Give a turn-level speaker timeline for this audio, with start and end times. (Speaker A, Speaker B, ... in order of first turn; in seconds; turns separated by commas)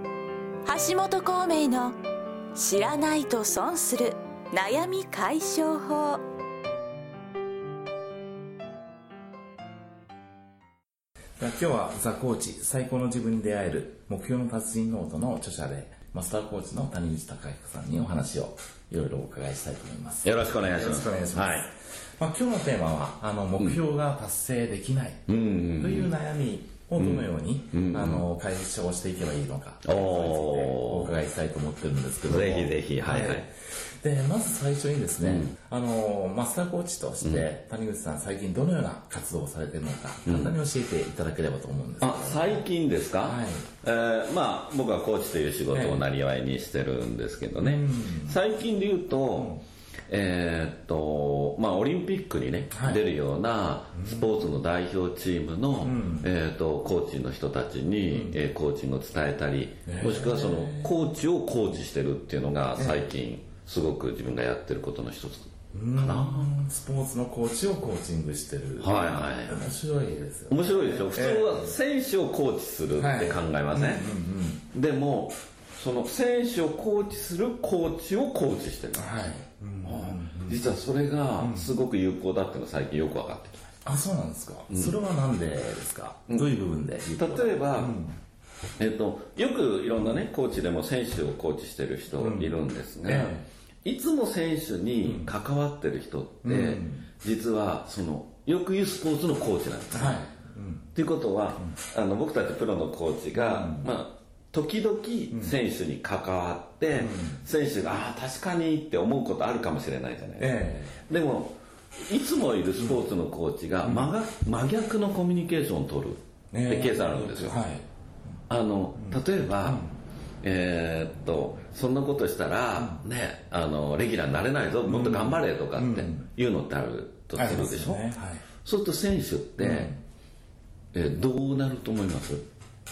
Speaker A: 0.6-2.0, Speaker A: 2.5-6.2, Speaker B: 11.4-42.6, Speaker C: 20.2-21.7, Speaker C: 25.3-26.2, Speaker C: 26.9-28.3, Speaker C: 29.8-31.2, Speaker C: 32.2-33.5, Speaker C: 35.2-35.5, Speaker C: 37.2-37.5, Speaker C: 40.2-40.6, Speaker C: 42.0-66.5, Speaker B: 43.2-43.7, Speaker B: 45.7-46.1, Speaker B: 47.6-48.4, Speaker B: 49.3-49.6, Speaker B: 52.7-53.0, Speaker B: 53.9-54.4, Speaker B: 55.8-56.3, Speaker B: 58.1-58.4, Speaker B: 59.9-61.1, Speaker B: 62.8-63.1, Speaker B: 65.7-71.8, Speaker C: 68.8-69.7, Speaker C: 70.5-74.1, Speaker B: 72.9-74.6, Speaker C: 74.7-83.7, Speaker B: 78.9-80.6, Speaker B: 81.4-81.7, Speaker B: 83.8-88.2, Speaker C: 84.7-85.0, Speaker C: 87.2-88.0, Speaker C: 88.8-100.3, Speaker B: 92.2-93.5, Speaker B: 95.0-95.3, Speaker B: 96.4-97.0, Speaker B: 99.9-100.9, Speaker C: 100.9-117.6, Speaker B: 103.3-103.9, Speaker B: 105.3-105.5, Speaker B: 106.9-107.4, Speaker B: 110.4-111.0, Speaker B: 112.8-113.0, Speaker B: 113.8-114.1, Speaker B: 116.5-117.8, Speaker C: 118.5-119.9, Speaker B: 118.9-119.9, Speaker C: 120.4-129.9, Speaker B: 122.8-123.0, Speaker B: 124.8-126.3, Speaker B: 127.3-128.4, Speaker B: 129.6-130.0, Speaker C: 130.9-132.4